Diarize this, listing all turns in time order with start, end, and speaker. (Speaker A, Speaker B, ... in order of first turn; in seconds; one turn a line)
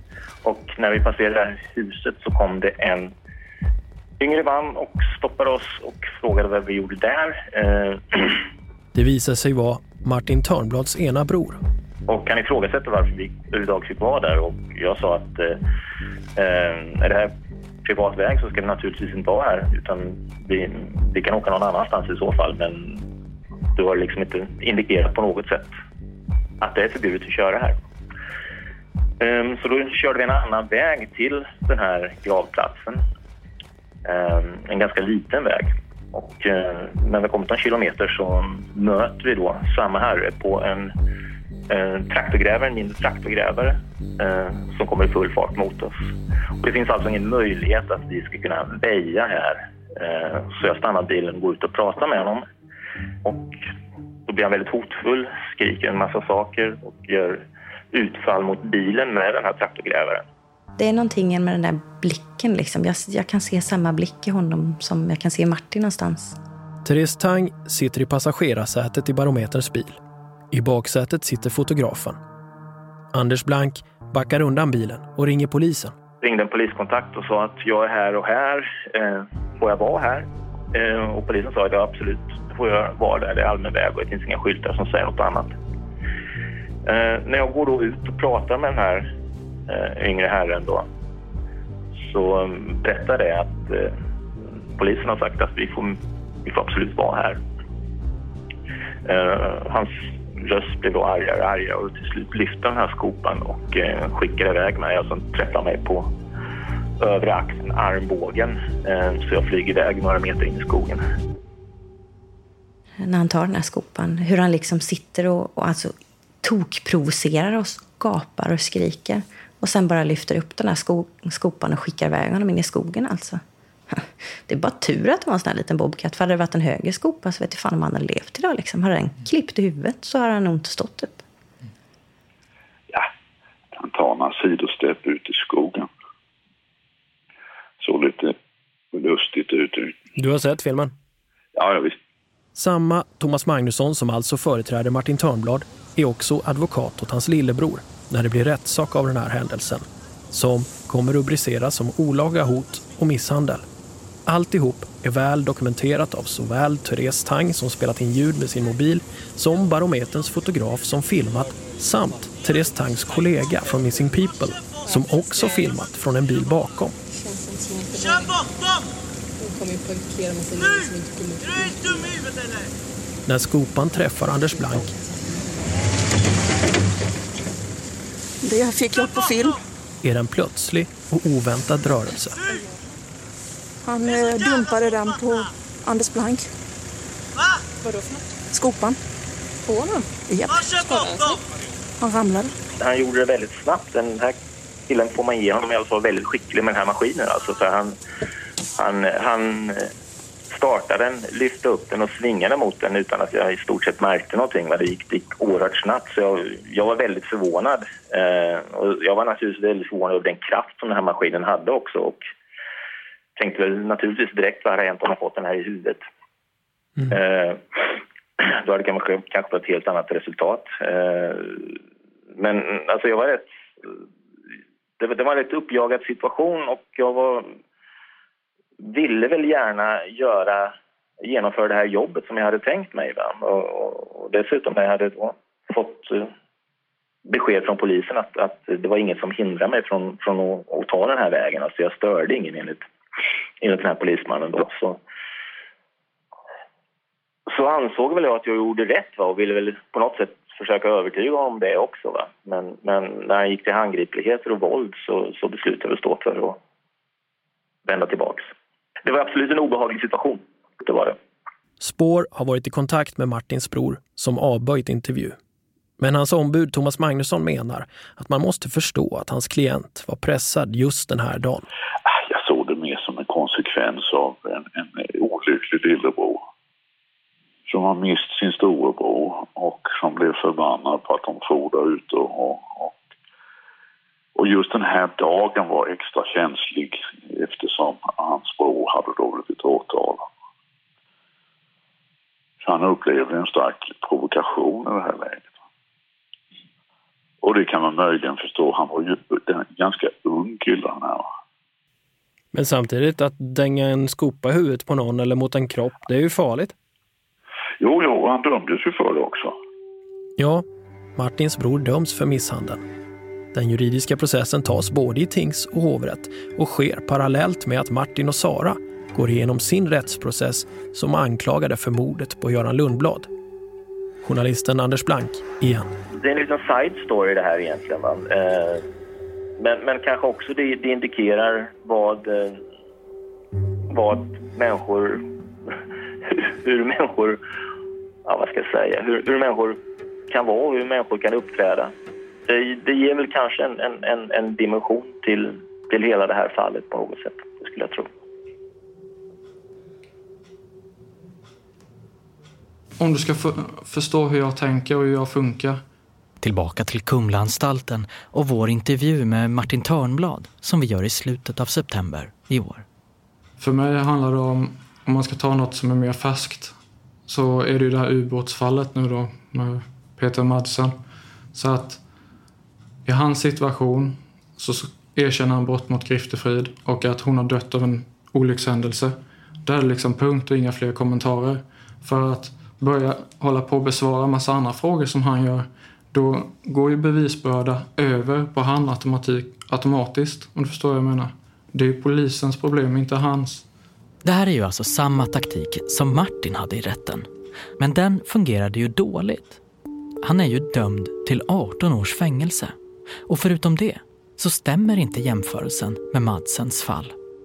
Speaker A: 0.4-3.1
Speaker A: 4.2-8.4
Speaker B: 8.9-11.6
Speaker A: 12.1-15.6
Speaker A: 16.4-17.3
Speaker A: 17.8-23.0
Speaker A: 23.7-25.7
Speaker A: 26.6-27.8
Speaker A: 29.2-33.0
Speaker A: 34.0-40.9
Speaker A: 41.7-46.0
Speaker A: 46.6-52.4
Speaker A: 53.2-53.6
Speaker A: 54.3-60.2
Speaker C: 60.8-66.4
Speaker B: 66.8-70.0
Speaker B: 70.5-72.2
Speaker B: 73.1-75.9
Speaker A: 76.2-85.5
Speaker A: 86.8-89.1
Speaker A: 89.7-90.8
Speaker A: 92.0-93.9
Speaker A: 94.8-97.4
Speaker A: 99.0-106.1
Speaker A: 107.0-111.0
Speaker C: 113.0-131.2
Speaker D: 133.7-135.9
Speaker D: 137.8-138.3
Speaker D: 138.9-140.0
Speaker B: 140.2-140.9
Speaker D: 141.5-142.0
Speaker B: 142.5-153.7
Speaker B: 154.2-166.9
Speaker E: 165.1-165.5
Speaker E: 167.1-168.4
Speaker E: 169.4-172.2
Speaker B: 173.3-174.9
Speaker F: 178.4-179.6
Speaker B: 180.0-182.4
Speaker F: 183.8-186.5
Speaker F: 188.5-189.0
Speaker F: 189.7-191.4
Speaker F: 192.0-192.5
Speaker A: 192.8-194.3
Speaker A: 194.9-198.0
Speaker A: 198.8-199.9
Speaker A: 200.5-212.2
Speaker A: 213.4-216.0
Speaker A: 217.1-221.8
Speaker A: 222.3-223.9
Speaker A: 225.0-227.5
Speaker A: 228.8-236.3
Speaker A: 237.2-242.8
Speaker A: 243.6-245.0
Speaker A: 247.5-256.6
Speaker A: 257.8-258.4
Speaker A: 259.0-261.2
Speaker B: 261.8-265.4
Speaker B: 266.0-271.6
Speaker D: 272.1-276.4
Speaker D: 277.7-283.0
Speaker D: 284.4-290.3
Speaker D: 292.6-295.5
Speaker D: 297.4-301.3
Speaker B: 302.5-306.7
Speaker D: 307.8-309.6
Speaker B: 310.4-310.6
Speaker B: 311.1-312.8
Speaker B: 313.5-323.3
Speaker B: 324.2-325.9
Speaker A: 326.1-328.8
Speaker A: 329.6-332.6
Speaker A: 333.9-335.2
Speaker A: 336.3-337.4
Speaker A: 338.2-339.8
Speaker A: 340.3-341.9
Speaker A: 342.5-348.1
Speaker G: 353.0-355.8
Speaker H: 356.4-362.9
Speaker G: 363.6-366.7
Speaker G: 367.3-370.9
Speaker G: 371.5-372.0
Speaker G: 373.0-393.6
Speaker H: 394.2-397.3
Speaker H: 397.8-399.6
Speaker H: 400.2-402.7
Speaker H: 403.3-407.1